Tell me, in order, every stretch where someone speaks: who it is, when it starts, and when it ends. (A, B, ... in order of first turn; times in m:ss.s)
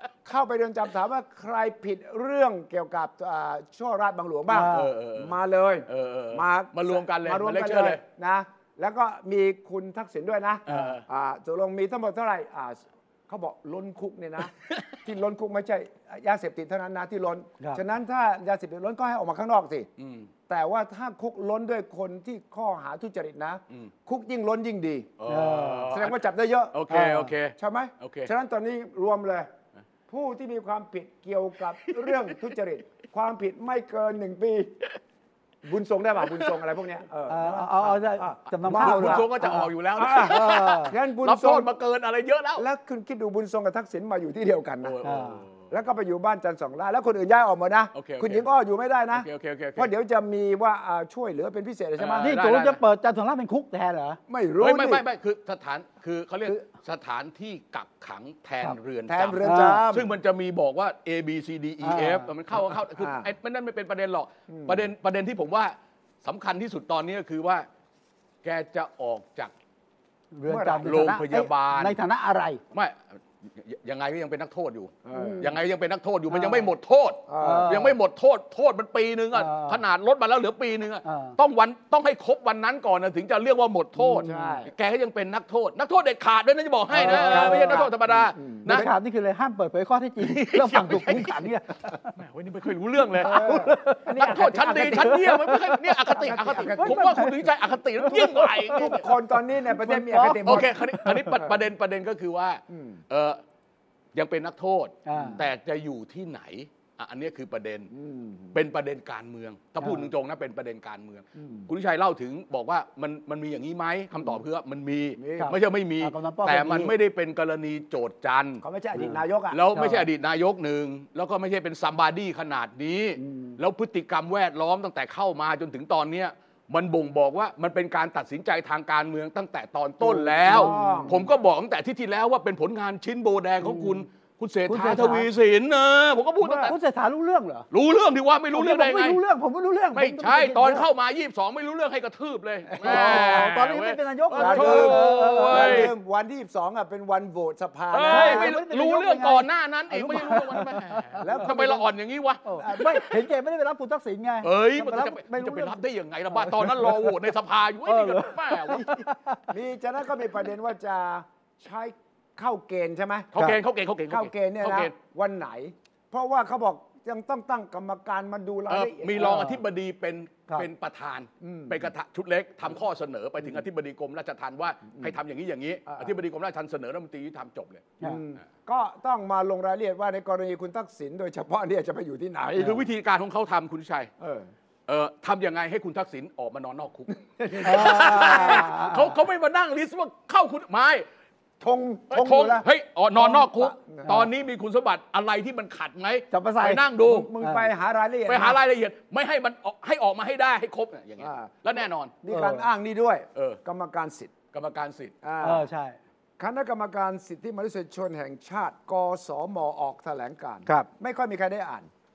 0:00.2-0:19.9 A
0:04.5-0:04.9 B
0:04.6-0:08.0 C
0:10.7-0:11.0 C
0:10.7-0:11.0 B
0:20.0-0:20.3 C
0:20.5-0:25.1 A
0:25.2-0:28.3 C
0:25.3-0:25.9 B
0:25.9-0:26.8 A
0:26.9-0:27.3 B
0:27.6-0:29.5 A
0:30.1-0:34.8 A
0:31.9-0:32.3 C
0:35.6-0:39.3 A
0:37.3-0:40.9 B
0:38.7-0:42.7 C
0:40.0-0:41.7 A
0:42.6-0:45.0 A
0:44.8-0:45.7 C
0:45.0-0:45.4 B
0:45.7-0:52.3 A
0:47.9-0:48.5 C
0:49.1-0:49.9 C
0:52.0-0:52.8 C
0:52.2-0:54.2 B
0:54.3-0:55.0 A
0:54.6-1:07.7 C
0:59.1-1:00.1 A
0:59.4-0:59.8 B
1:01.8-1:02.3 B
1:03.0-1:03.3 A
1:04.5-1:04.8 A
1:08.4-1:09.5 C
1:10.3-1:12.6 B
1:10.5-1:11.2 A
1:10.8-1:12.0 C
1:12.7-1:28.9 C
1:15.1-1:15.5 A
1:15.2-1:15.4 B
1:16.3-1:16.7 B
1:17.3-1:17.9 A
1:17.4-1:17.9 B
1:19.3-1:19.8 B
1:21.0-1:21.4 B
1:24.0-1:24.7 A
1:24.2-1:24.6 B
1:26.9-1:27.9 B
1:26.9-1:28.9 A
1:28.7-1:32.1 B
1:30.2-1:31.4 C
1:32.2-1:39.1 C
1:33.2-1:35.3 A
1:33.2-1:34.4 B
1:34.9-1:36.2 B
1:36.1-1:37.2 A
1:36.8-1:37.4 B
1:38.1-1:39.0 B
1:38.1-1:40.7 A
1:39.7-1:41.4 B
1:40.5-1:43.4 C
1:41.3-1:41.6 A
1:42.7-1:43.0 A
1:44.1-1:47.9 C
1:45.1-1:45.4 B
1:45.2-1:45.4 A
1:47.9-1:48.6 A
1:48.5-1:58.6 C
1:49.8-1:50.1 B
1:51.4-1:51.7 A
1:55.2-1:55.6 A
1:55.4-1:56.9 B
1:58.6-1:59.6 A
1:59.5-2:16.8 C
1:59.7-2:00.1 B
2:03.2-2:03.5 B
2:10.0-2:11.2 B
2:10.4-2:11.2 A
2:13.6-2:14.0 B
2:14.7-2:15.3 B
2:16.4-2:16.7 A
2:16.6-2:17.7 B
2:17.7-2:19.2 C
2:18.5-2:20.9 B
2:20.0-2:25.9 C
2:22.8-2:25.9 B
2:22.8-2:23.4 A
2:24.4-2:28.6 A
2:27.9-2:33.1 C
2:28.1-2:31.4 B
2:31.2-2:31.9 A
2:32.5-2:37.3 B
2:34.4-2:38.9 C
2:37.9-2:39.4 B
2:39.5-2:43.6 A
2:43.3-2:44.9 C
2:44.1-2:49.6 A
2:48.7-2:58.0 C
2:49.2-2:49.6 B
2:51.4-2:51.9 A
2:58.0-3:02.7 A
3:02.6-3:04.1 C
3:04.2-3:04.5 A
3:04.9-3:11.0 C
3:07.4-3:08.7 A
3:07.6-3:09.1 B
3:11.6-3:12.7 A
3:12.1-3:17.3 C
3:13.2-3:14.2 A
3:16.3-3:16.8 B
3:17.0-3:18.6 A
3:17.4-3:17.7 B
3:18.3-3:22.2 C
3:21.2-3:21.6 A
3:22.2-3:24.3 A
3:22.3-3:22.7 B
3:23.4-3:23.6 C
3:24.5-3:25.2 C
3:25.2-3:25.7 A
3:25.4-3:26.0 B
3:26.4-3:31.9 A